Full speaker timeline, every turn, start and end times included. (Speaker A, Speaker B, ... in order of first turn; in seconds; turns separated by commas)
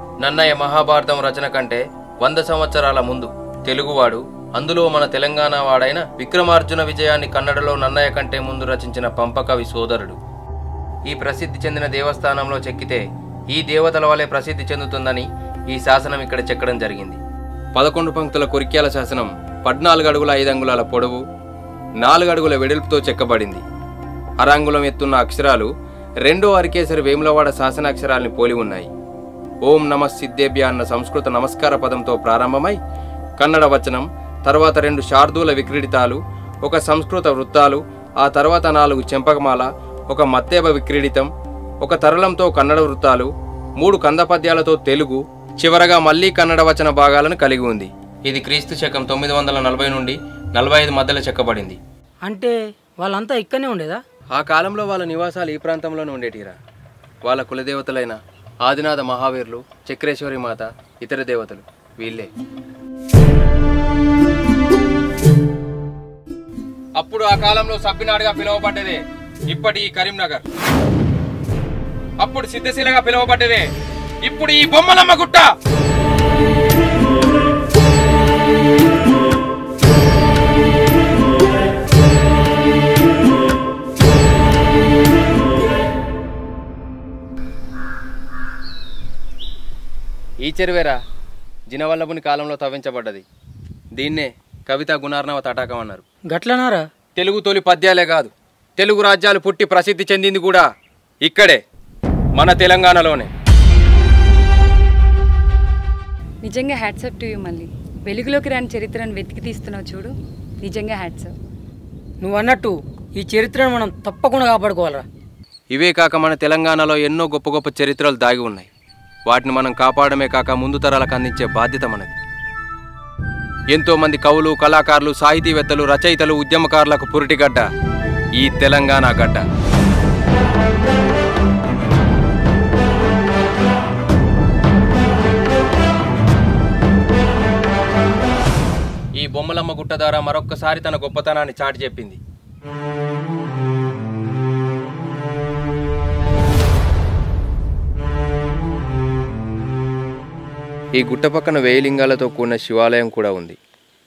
Speaker A: 0.2-10.2, Speaker A: 11.1-17.2, Speaker A: 17.8-21.2, Speaker A: 22.0-23.6, Speaker A: 24.4-25.7, Speaker A: 26.2-28.9, Speaker A: 29.6-32.8, Speaker A: 33.4-41.3, Speaker A: 41.8-51.8, Speaker B: 52.2-54.0, Speaker A: 54.3-56.6, Speaker A: 57.2-62.3, Speaker A: 67.0-70.4, Speaker A: 72.2-73.7, Speaker A: 74.2-75.5, Speaker A: 90.4-91.0, Speaker A: 91.7-93.2, Speaker A: 94.0-96.0, Speaker B: 96.3-96.8, Speaker A: 97.2-100.7, Speaker A: 101.2-101.6, Speaker A: 102.3-103.3, Speaker C: 106.4-111.3, Speaker B: 112.2-115.0, Speaker A: 115.7-118.7, Speaker A: 119.3-122.2, Speaker A: 123.7-127.7, Speaker A: 128.4-129.4, Speaker A: 139.2-142.2, Speaker A: 150.9-153.6